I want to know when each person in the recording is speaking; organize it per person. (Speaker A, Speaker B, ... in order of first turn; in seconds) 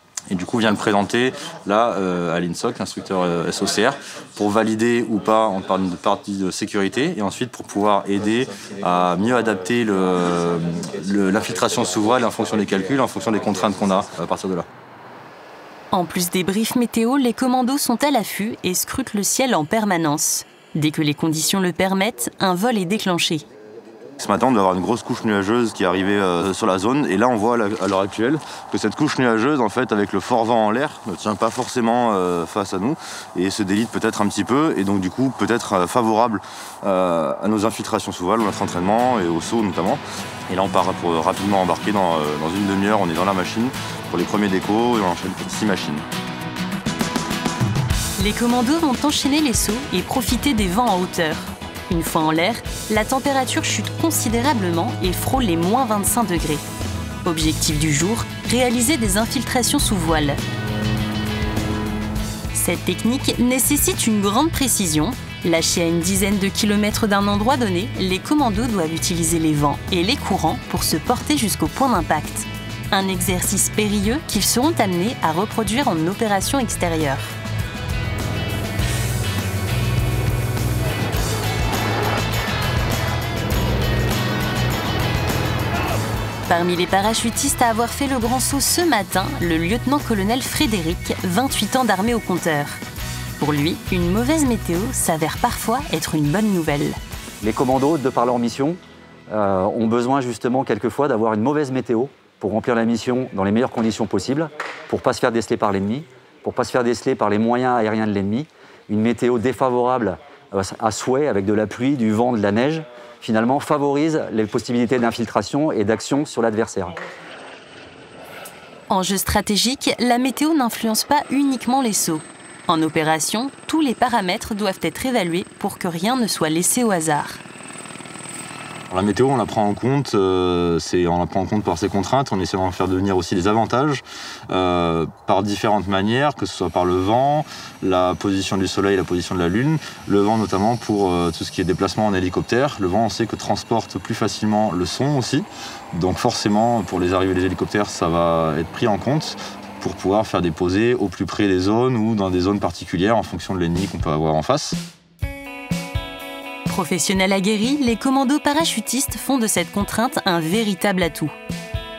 Speaker A: 0.3-14.7, 24.2-46.0, 128.9-154.8
Speaker B: 15.9-23.4, 48.2-56.6, 57.2-60.4, 62.5-77.3, 86.5-92.8, 93.4-97.0, 118.9-127.4, 156.7-161.3
Speaker C: 97.4-117.0